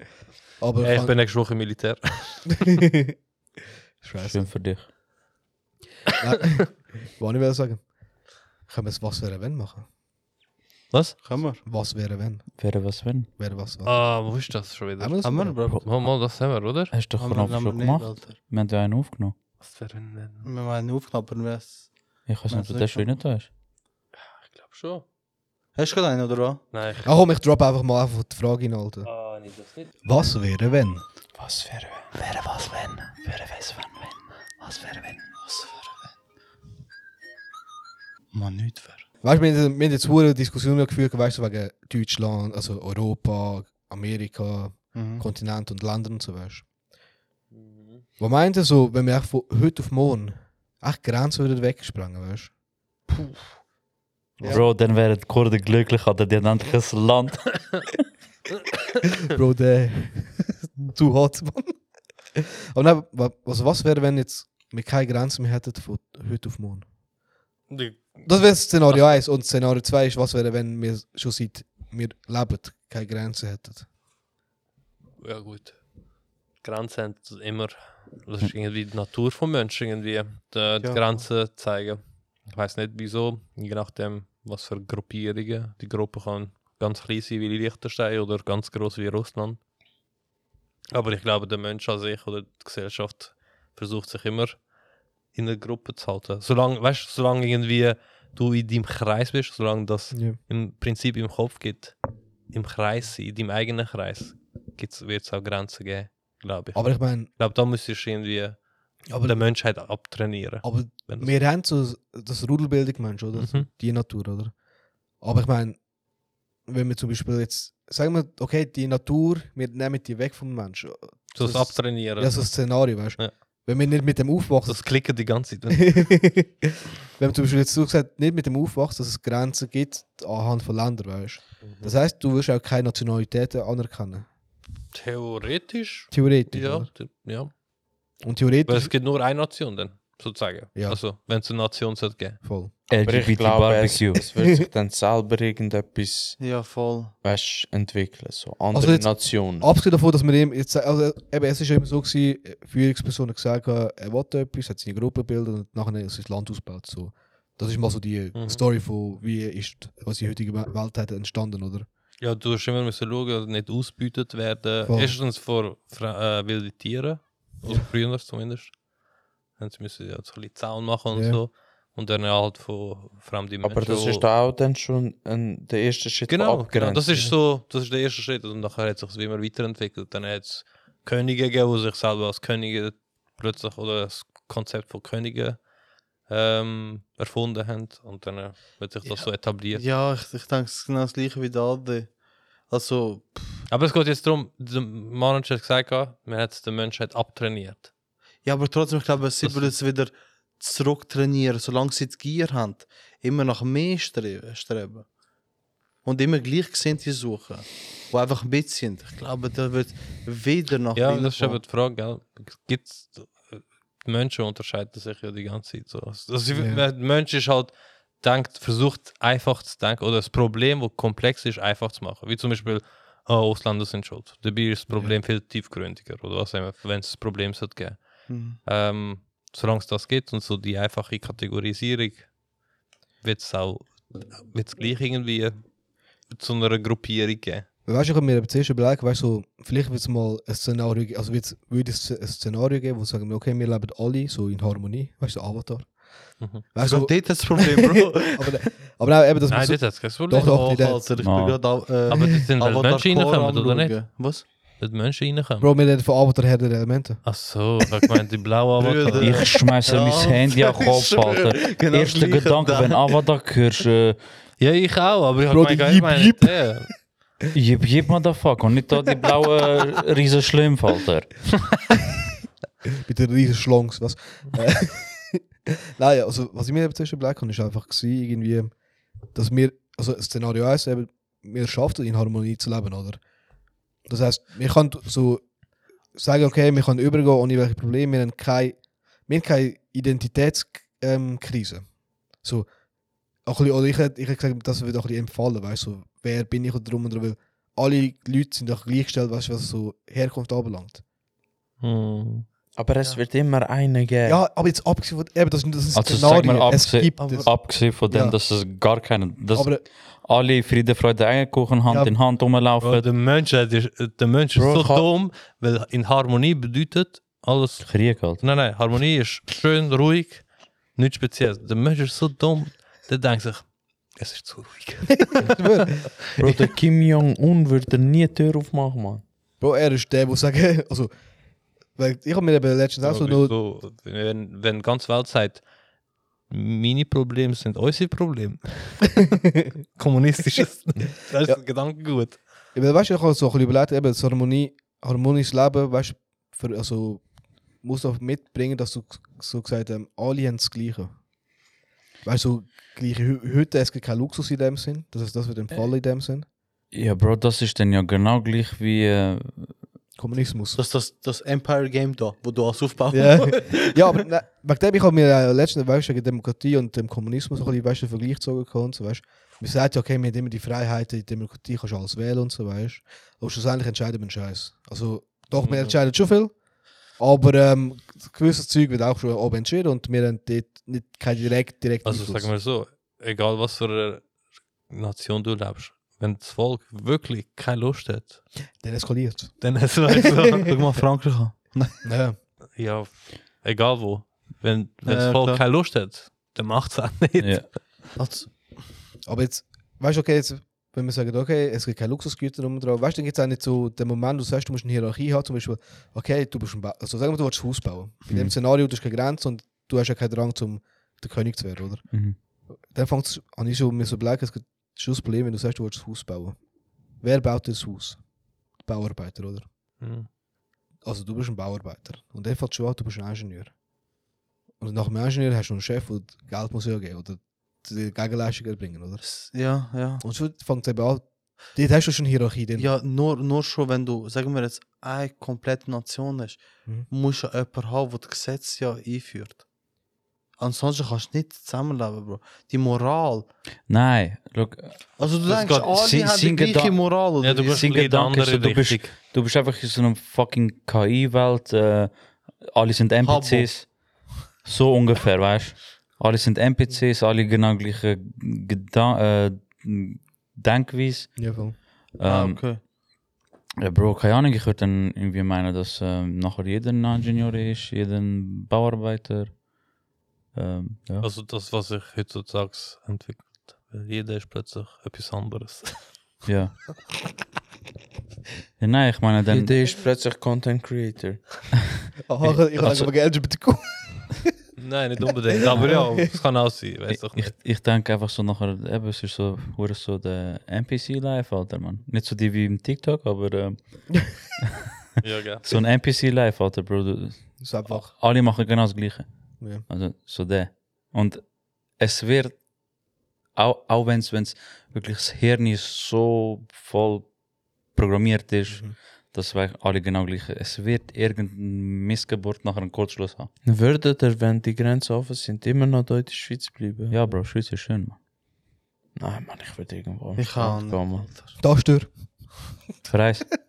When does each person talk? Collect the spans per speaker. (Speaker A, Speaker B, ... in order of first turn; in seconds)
Speaker A: 0.6-1.1, 2.7-3.1, 4.0-4.6, 6.2-7.9, 8.6-9.9, 11.6-12.8, 13.4-14.3, 15.0-15.6, 27.0-29.1, 30.0-31.0, 39.2-46.6, 48.2-52.5, 54.4-54.6, 59.2-61.7, 62.3-66.8, 68.2-73.9, 100.1-100.4, 106.7-107.3, 109.1-109.4, 110.6-114.6, 115.2-115.8, 116.7-125.0, 125.7-134.3, 136.1-136.9, 138.2-138.9, 140.7-141.0, 142.4-142.7, 148.7-161.9, 164.9-165.1, 171.1-171.4, 216.5-216.8, 237.8-251.1, 255.6-257.2, 265.5-266.9, 273.1-278.7, 279.3-283.2, 284.1-285.4, 286.1-292.7, 293.4-301.0, 304.2-308.4, 309.5-309.8, 311.9-312.1, 325.3-326.2, 329.6-331.1, 331.9-333.5, 342.7-347.2, 347.8-351.1, 352.2-356.4, 360.2-360.8, 363.1-382.5, 388.8-389.9, 392.0-392.4, 399.2-412.1, 412.9-416.6, 417.2-418.2, 418.8-419.7, 421.0-423.7, 424.8-429.3, 430.2-432.9, 461.4-461.8, 482.2-484.5, 485.7-486.2, 497.6-498.1, 508.7-508.9, 521.6-522.1
Speaker B: 0.8-2.5, 10.9-11.2, 13.8-16.9, 19.6-20.5, 24.2-25.0, 26.7-27.1, 29.0-29.9, 32.3-33.0, 47.5-48.0, 67.7-68.3, 68.9-69.2, 75.2-75.8, 76.6-89.6, 90.9-94.7, 95.3-101.9, 102.5-111.4, 113.3-113.7, 121.3-123.3, 124.7-126.2, 131.6-131.9, 134.9-137.5, 138.7-142.4, 158.3-158.6, 162.2-168.8, 169.6-174.3, 176.3-185.7, 186.2-189.8, 193.7-197.9, 199.4-199.8, 210.9-232.3, 233.2-235.6, 236.3-237.7, 249.5-250.6, 252.1-254.1, 254.8-255.7, 257.2-259.5, 264.6-266.9, 301.8-302.4, 312.8-325.6, 333.0-335.6, 336.5-339.2, 339.9-342.4, 375.5-376.0, 382.0-384.3, 384.9-388.4, 389.6-390.8, 392.8-397.8, 420.0-420.3, 445.5-445.9, 447.4-449.1, 471.2-476.0, 484.8-487.6, 495.2-495.6
Speaker C: 4.2-4.9, 12.6-13.3, 16.9-19.3, 22.2-23.5, 33.3-34.1, 54.4-57.9, 142.9-144.2, 251.2-251.7, 259.1-264.2, 267.5-271.4, 305.9-313.1, 317.8-318.4, 356.9-359.7, 397.4-397.7, 408.3-408.5, 412.1-412.4, 443.9-445.1, 445.6-462.8, 463.8-469.6, 470.5-471.3, 476.4-476.8, 478.8-479.8, 482.4-483.1, 487.1-494.8, 495.6-501.4, 502.0-502.6, 503.6-507.3, 507.9-513.5, 517.1-518.2, 523.0-523.5
Speaker D: 11.2-11.6, 15.2-15.9, 17.2-18.4, 20.4-21.9, 22.5-23.2, 25.7-26.6, 35.3-35.7, 38.3-39.0, 44.9-45.2, 80.8-81.2, 146.4-147.2, 189.0-193.6, 198.4-205.1, 206.0-211.6, 228.3-228.6, 246.8-248.6, 250.3-254.4, 258.8-263.1, 307.2-307.5, 360.8-364.0, 390.6-392.0, 395.0-395.6, 398.2-398.8, 429.2-430.2, 432.8-439.6, 440.6-443.5, 445.2-447.9, 453.2-453.7, 462.2-462.8, 520.4-521.6
Speaker E: 31.4-32.0, 143.0-146.6, 147.2-149.7, 173.6-177.3, 302.8-304.4, 314.6-315.1, 326.4-329.2, 479.5-481.7, 513.6-517.2, 519.1-521.3